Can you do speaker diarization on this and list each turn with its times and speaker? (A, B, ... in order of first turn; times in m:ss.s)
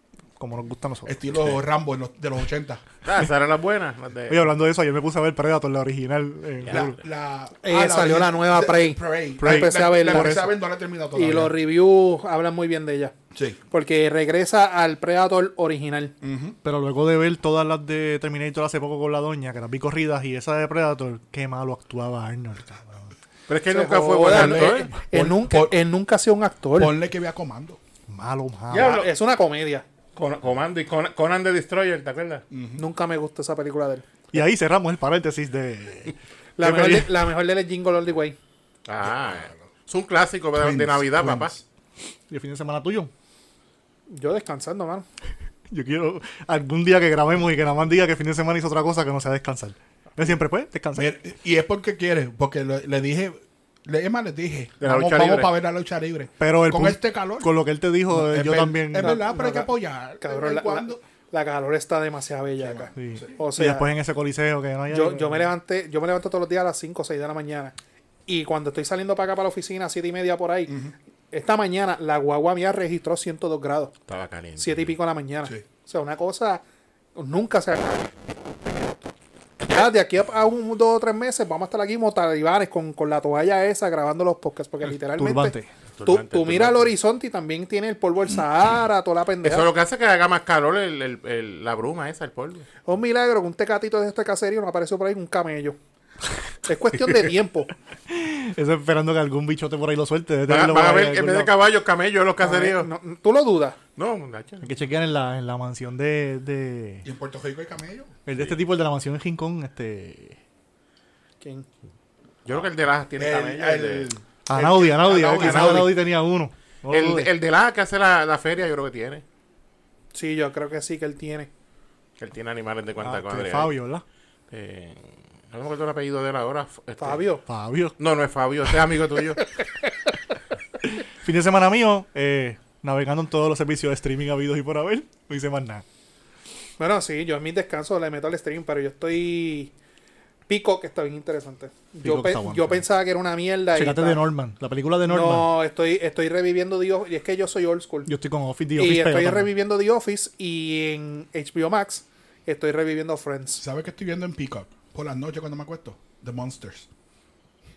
0:00.4-0:01.2 A
0:01.1-0:02.8 B
0:03.0-0:04.5 C
0:04.3-0:07.0 A
0:06.6-0:11.6 B
0:07.6-0:10.5 D
0:09.4-0:10.5 A
0:11.1-0:13.2 D
0:13.3-0:13.6 B
0:13.7-0:16.2 D
0:16.2-0:16.6 B
0:16.6-0:22.9 A
0:23.5-0:24.9 C
0:23.7-0:27.0 D
0:24.2-0:25.8 B
0:26.8-0:27.8 B
0:28.1-0:28.9 A
0:28.7-0:29.8 D
0:28.7-0:29.1 C
0:30.2-0:32.4 C
0:32.5-0:32.8 B
0:32.8-0:34.0 D
0:34.3-0:37.1 A
0:36.6-0:38.4 D
0:38.9-0:41.5 C
0:39.3-0:39.6 B
0:40.6-0:41.6 B
0:42.3-0:43.1 A
0:44.1-0:45.1 D
0:45.7-0:51.1 A
0:51.0-0:57.5 B
0:54.8-0:55.6 C
0:56.4-0:59.2 A
0:58.1-1:01.0 B
0:59.0-1:03.9 D
1:02.6-1:03.4 B
1:03.0-1:05.5 A
1:04.9-1:07.8 D
1:08.3-1:13.9 D
1:10.7-1:10.9 B
1:14.1-1:14.9 C
1:14.6-1:16.6 D
1:17.2-1:18.1 D
1:19.7-1:29.7 D
1:25.2-1:25.7 A
1:26.0-1:26.9 C
1:29.4-1:32.7 C
1:32.9-1:35.8 D
1:36.6-1:37.7 D
1:38.1-1:41.5 A
1:40.5-1:42.9 C
1:42.4-1:43.8 D
1:44.0-1:44.7 C
1:44.6-1:47.0 A
1:47.0-1:48.1 B
1:48.3-1:50.4 A
1:51.4-1:51.7 D
1:52.5-1:54.1 C
1:53.2-1:55.9 B
1:54.5-1:57.3 A
1:55.1-1:55.9 D
1:56.9-1:59.2 C
2:00.1-2:01.5 D
2:02.2-2:03.7 C
2:03.0-2:04.0 A
2:04.5-2:07.2 C
2:07.0-2:07.4 D
2:07.5-2:07.9 A
2:08.0-2:09.4 C
2:11.0-2:15.8 A
2:16.8-2:19.7 D
2:20.5-2:24.2 D
2:22.0-2:22.8 A
2:23.8-2:25.5 A
2:25.1-2:28.1 D
2:28.1-2:29.5 A
2:28.8-2:33.6 D
2:33.6-2:36.9 B